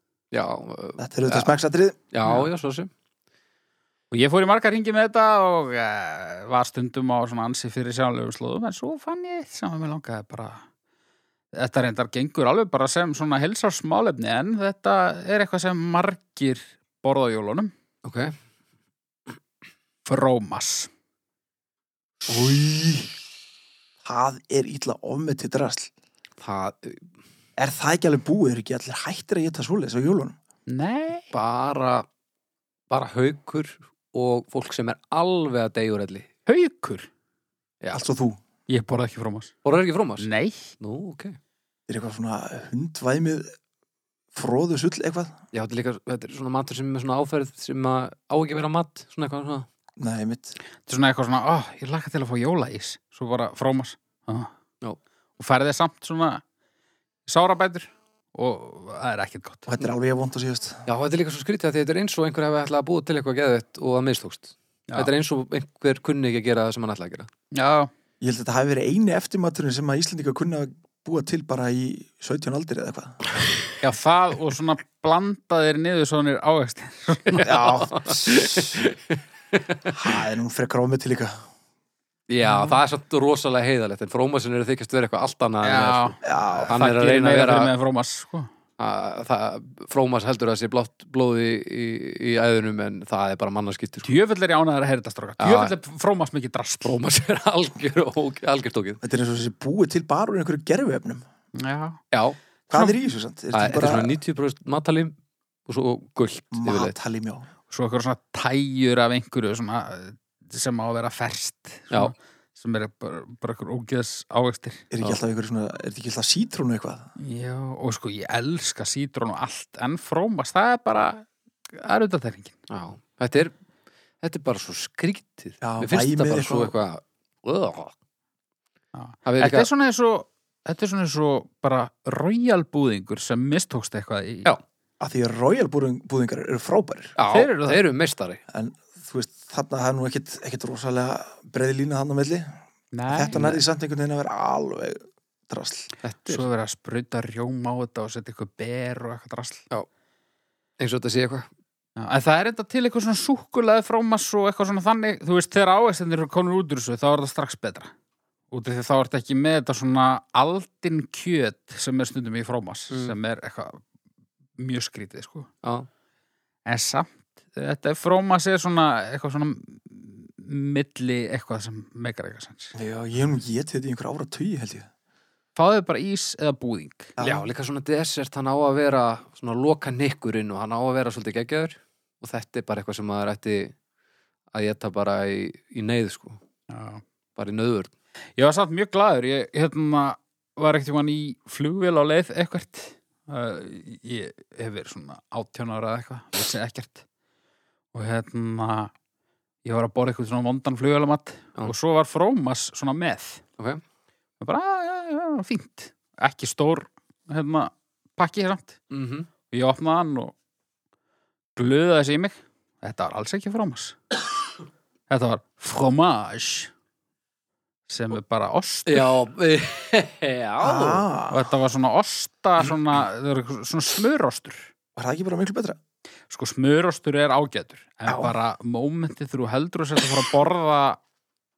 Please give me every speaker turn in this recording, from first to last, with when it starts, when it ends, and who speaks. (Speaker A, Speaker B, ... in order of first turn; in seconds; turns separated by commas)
Speaker A: 0.3-1.6, Speaker B: 1.0-2.0, Speaker A: 2.1-2.9, Speaker C: 2.2-2.5, Speaker C: 4.1-10.6, Speaker C: 11.5-17.7, Speaker A: 18.0-18.3, Speaker C: 20.1-20.9, Speaker B: 22.2-23.1, Speaker B: 24.0-25.9, Speaker A: 26.4-27.1, Speaker B: 27.6-30.4, Speaker C: 30.7-31.3, Speaker A: 31.3-32.0, Speaker A: 32.9-36.3, Speaker C: 36.5-37.1, Speaker A: 37.8-38.1, Speaker B: 37.9-38.4, Speaker C: 38.7-39.5, Speaker A: 39.6-40.3, Speaker C: 40.2-40.7, Speaker A: 40.8-41.4, Speaker B: 41.9-43.5, Speaker B: 44.3-45.4, Speaker A: 45.5-49.7, Speaker B: 50.0-50.5, Speaker C: 50.9-54.5, Speaker C: 55.4-56.4, Speaker C: 57.3-59.7, Speaker B: 59.7-60.8, Speaker A: 60.9-67.3, Speaker C: 67.5-67.9, Speaker B: 68.2-73.2, Speaker C: 73.8-77.8, Speaker A: 77.4-79.9, Speaker B: 77.4-78.8, Speaker B: 79.9-81.3, Speaker A: 82.3-87.7, Speaker B: 82.4-82.8, Speaker C: 85.6-88.5, Speaker B: 86.2-86.7, Speaker A: 88.8-94.1, Speaker C: 94.0-96.9, Speaker A: 95.4-95.7, Speaker A: 96.8-99.0, Speaker B: 99.0-101.2, Speaker C: 101.6-102.0, Speaker A: 102.1-102.4, Speaker B: 102.7-104.1, Speaker A: 103.5-105.1, Speaker A: 105.7-106.9, Speaker B: 106.5-107.5, Speaker C: 107.7-114.8, Speaker B: 114.9-117.1, Speaker C: 117.2-122.5, Speaker A: 122.7-123.5, Speaker A: 124.2-127.9, Speaker B: 125.6-126.7, Speaker C: 128.9-134.5, Speaker A: 129.2-129.7, Speaker B: 135.0-137.2, Speaker A: 137.2-138.4, Speaker C: 137.3-137.8, Speaker B: 138.5-142.5, Speaker C: 142.9-143.4, Speaker B: 143.1-145.9, Speaker A: 143.3-143.6, Speaker A: 146.0-146.5, Speaker C: 146.3-149.6, Speaker A: 150.8-151.5, Speaker C: 152.0-157.9, Speaker C: 158.5-163.8, Speaker A: 162.9-163.2, Speaker C: 164.6-165.5, Speaker C: 166.7-172.7, Speaker B: 172.7-174.9, Speaker C: 175.6-177.1, Speaker B: 177.2-177.5, Speaker A: 177.2-183.7, Speaker A: 184.5-186.4, Speaker C: 186.7-187.0, Speaker A: 187.3-187.9, Speaker C: 188.4-197.0, Speaker C: 197.9-198.9, Speaker C: 199.6-203.4, Speaker C: 204.4-208.8, Speaker A: 208.9-209.3, Speaker C: 209.5-210.3, Speaker C: 211.6-214.0, Speaker C: 215.1-216.7, Speaker C: 217.9-219.1, Speaker A: 218.9-221.1, Speaker B: 220.6-221.5, Speaker C: 221.3-224.7, Speaker B: 224.9-225.8, Speaker C: 226.3-231.0, Speaker B: 228.1-228.3